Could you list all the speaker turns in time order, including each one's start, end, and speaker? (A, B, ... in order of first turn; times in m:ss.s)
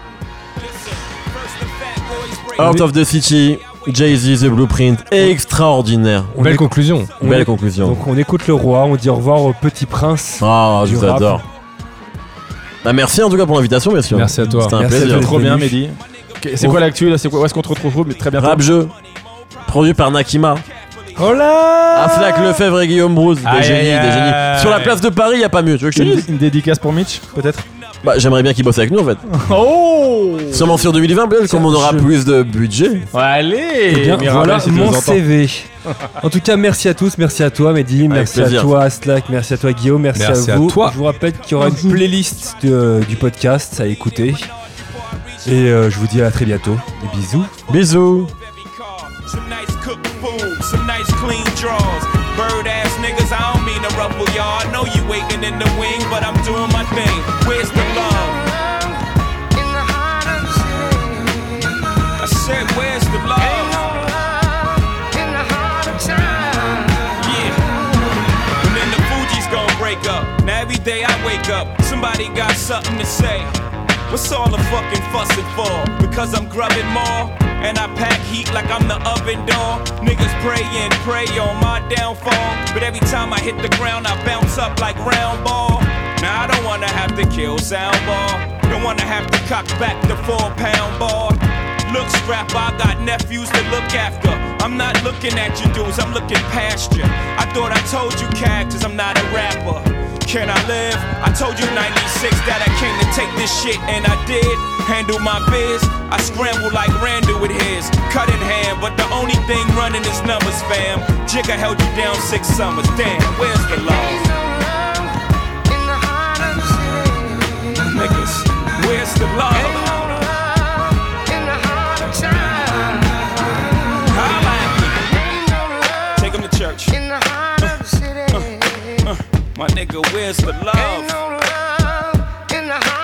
0:00.6-0:05.4 A
0:02.6-0:06.3 B
0:02.6-0:02.8 C
0:06.3-0:11.4 C
0:06.4-0:07.1 D
0:07.2-0:08.0 B
0:10.4-0:11.4 B
0:12.8-0:15.4 B
0:14.1-0:14.8 D
0:14.7-0:15.8 C
0:15.0-0:18.6 E
0:16.0-0:16.5 A
0:17.3-0:21.5 A
0:18.4-0:18.9 B
0:19.6-0:20.6 B
0:21.2-0:22.6 D
0:21.9-0:26.3 B
0:23.4-0:25.0 D
0:25.9-0:27.6 E
0:27.3-0:28.3 A
0:28.0-0:29.2 B
0:29.3-0:30.7 E
0:30.5-0:33.1 B
0:31.4-0:32.1 C
0:33.1-0:35.2 E
0:33.9-0:44.5 C
0:38.1-0:38.7 B
0:40.1-0:41.0 D
0:40.9-0:58.5 A
0:41.6-0:42.0 D
0:45.4-0:47.5 C
0:47.7-0:48.3 B
1:02.2-1:04.0 A
1:07.0-1:08.0 A
1:08.6-1:13.5 A
1:14.1-1:54.4 A
1:57.6-2:00.4 A
2:02.2-2:02.6 A
2:03.9-2:05.2 A
2:06.1-2:07.1 A
2:07.6-2:11.3 A